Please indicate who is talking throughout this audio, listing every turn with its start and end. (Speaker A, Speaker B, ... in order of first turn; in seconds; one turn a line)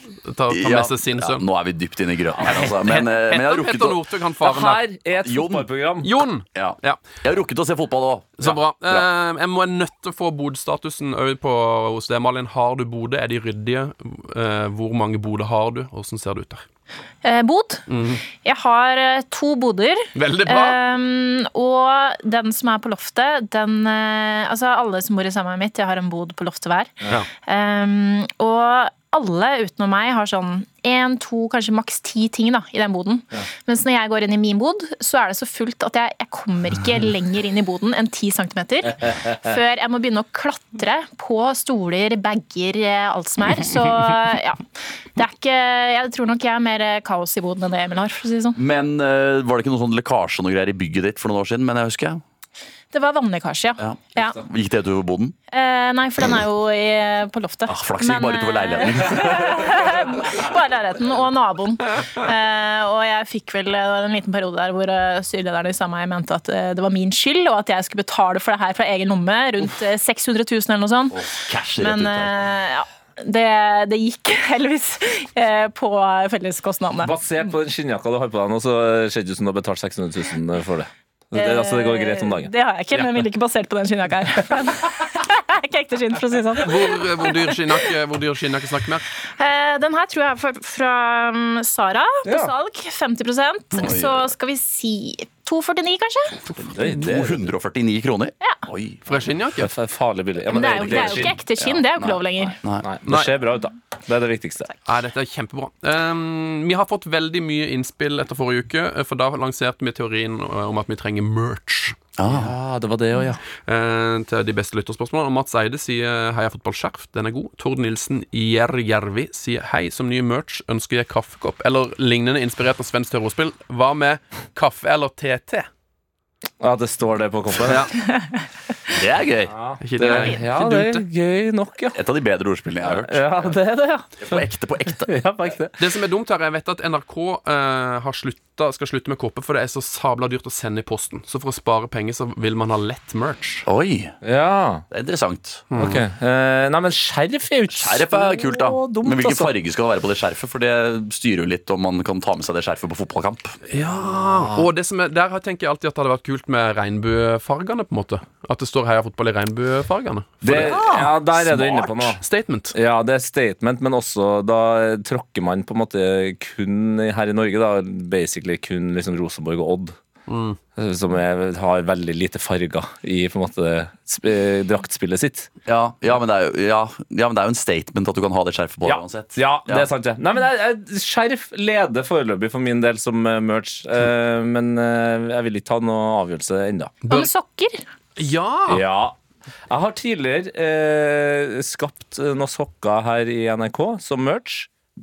Speaker A: 0.2-1.4
Speaker B: 0.5-4.0
Speaker A: 2.4-4.8
Speaker C: 4.4-6.1
Speaker B: 5.2-5.7
Speaker A: 6.0-7.2
Speaker B: 6.5-9.1
Speaker A: 8.4-16.6
Speaker D: 17.2-44.6
Speaker A: 17.9-18.2
Speaker A: 20.1-20.8
Speaker D: 45.1-48.6
Speaker B: 48.6-52.2
Speaker D: 52.9-54.4
Speaker B: 53.8-55.4
Speaker D: 55.5-71.2
Speaker B: 57.7-59.7
Speaker B: 71.1-72.3
Speaker D: 71.8-77.1
Speaker C: 77.0-82.5
Speaker D: 81.3-87.9
Speaker A: 86.6-89.0
Speaker D: 89.4-96.4
Speaker C: 92.2-92.5
Speaker B: 93.8-94.3
Speaker C: 96.5-97.5
Speaker B: 96.8-99.0
Speaker A: 99.0-99.7
Speaker C: 99.6-101.4
Speaker D: 100.5-102.6
Speaker B: 101.6-102.9
Speaker C: 102.8-104.7
Speaker A: 103.0-103.3
Speaker A: 104.8-112.0
Speaker B: 112.2-112.5
Speaker C: 112.2-113.4
Speaker A: 113.6-125.7
Speaker C: 126.6-127.9
Speaker B: 128.9-130.2
Speaker C: 129.5-132.0
Speaker A: 129.8-131.0
Speaker B: 131.9-133.5
Speaker C: 132.8-135.8
Speaker B: 134.2-135.1
Speaker A: 135.8-143.7
Speaker B: 143.7-144.1
Speaker C: 144.2-144.8
Speaker B: 144.9-145.7
Speaker A: 145.7-146.0
Speaker C: 145.7-149.5
Speaker B: 147.7-153.6
Speaker A: 153.7-162.7
Speaker C: 154.3-154.7
Speaker C: 160.4-162.2
Speaker C: 162.7-170.0
Speaker A: 170.3-170.6
Speaker C: 170.8-175.5
Speaker B: 175.7-179.9
Speaker C: 178.8-187.0
Speaker A: 187.0-187.3
Speaker D: 187.1-187.9
Speaker A: 188.2-188.8
Speaker C: 188.7-189.2
Speaker C: 189.7-194.7